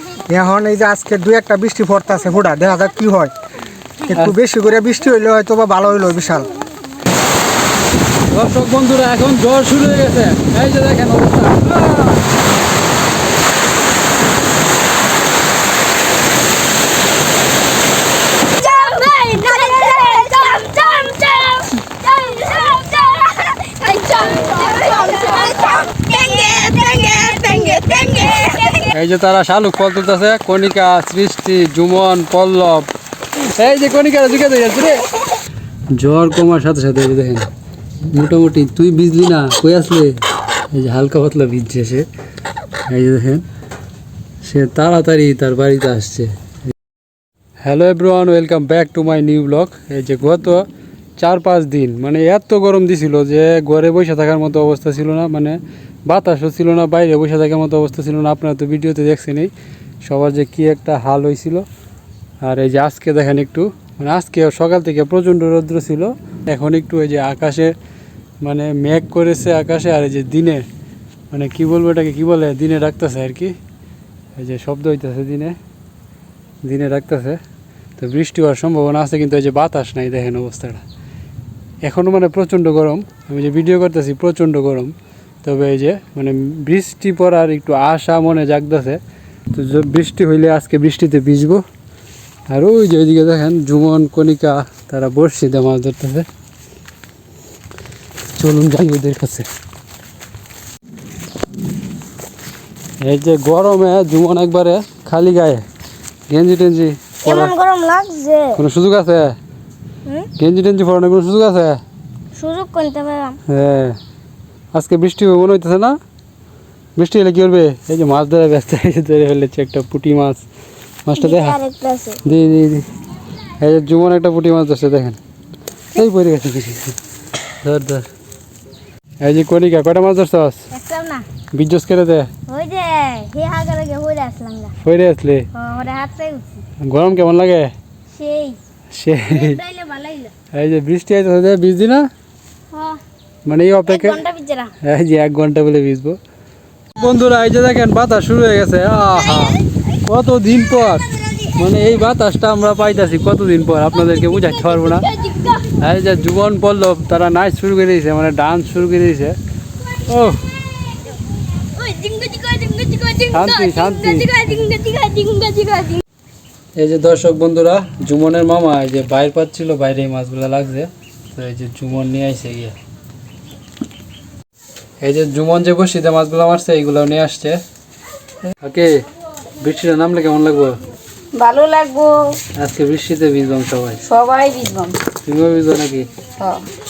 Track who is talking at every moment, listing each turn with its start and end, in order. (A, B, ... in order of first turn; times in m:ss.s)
0:00.3-0:03.3 A
0:04.1-0:06.5 A
0:08.3-0:12.1 B
0:18.5-0:28.9 C
0:28.9-0:32.9 B
0:33.4-0:35.0 B
0:35.9-0:37.5 B
0:38.1-0:40.2 B
0:40.7-0:42.1 B
0:42.9-0:43.5 B
0:44.4-0:46.3 B
0:47.6-0:50.7 B
0:51.2-0:59.5 B
1:00.0-1:01.7 B
1:02.4-1:07.7 B
1:08.4-1:10.7 B
1:11.3-1:13.6 B
1:14.4-1:15.6 B
1:16.6-1:17.4 B
1:18.0-1:20.8 B
1:21.8-1:29.0 B
1:29.5-1:31.6 B
1:32.5-1:36.3 B
1:38.4-1:39.5 B
1:43.0-1:45.7 B
1:46.3-1:47.5 B
1:47.2-1:48.6 C
1:48.6-1:49.4 B
1:50.4-1:51.8 B
1:52.4-1:53.4 C
1:53.5-1:54.0 B
1:54.7-1:56.0 B
1:57.0-2:00.4 B
2:01.1-2:01.6 B
2:01.2-2:02.2 C
2:02.2-2:02.9 B
2:03.6-2:05.2 B
2:05.9-2:06.9 B
2:07.6-2:08.1 B
2:09.2-2:10.6 B
2:10.7-2:11.2 C
2:11.5-2:12.3 B
2:12.5-2:14.7 C
2:14.8-2:15.5 B
2:15.5-2:16.4 C
2:16.8-2:17.7 B
2:18.2-2:18.6 C
2:18.9-2:19.6 B
2:19.3-2:20.3 C
2:20.5-2:22.1 B
2:22.7-2:23.0 C
2:23.5-2:24.2 B
2:23.9-2:24.7 C
2:24.8-2:26.2 B
2:27.0-2:35.1 B
2:34.2-2:35.7 C
2:35.8-2:39.4 B
2:40.1-2:40.4 B
2:41.8-2:46.0 C
2:43.3-2:44.3 B
2:46.8-2:52.8 B
2:55.0-2:57.6 B
2:58.6-2:59.0 B
2:59.6-3:00.8 B
3:01.3-3:02.4 C
3:02.6-3:04.0 B
3:04.0-3:05.0 C
3:05.2-3:06.1 B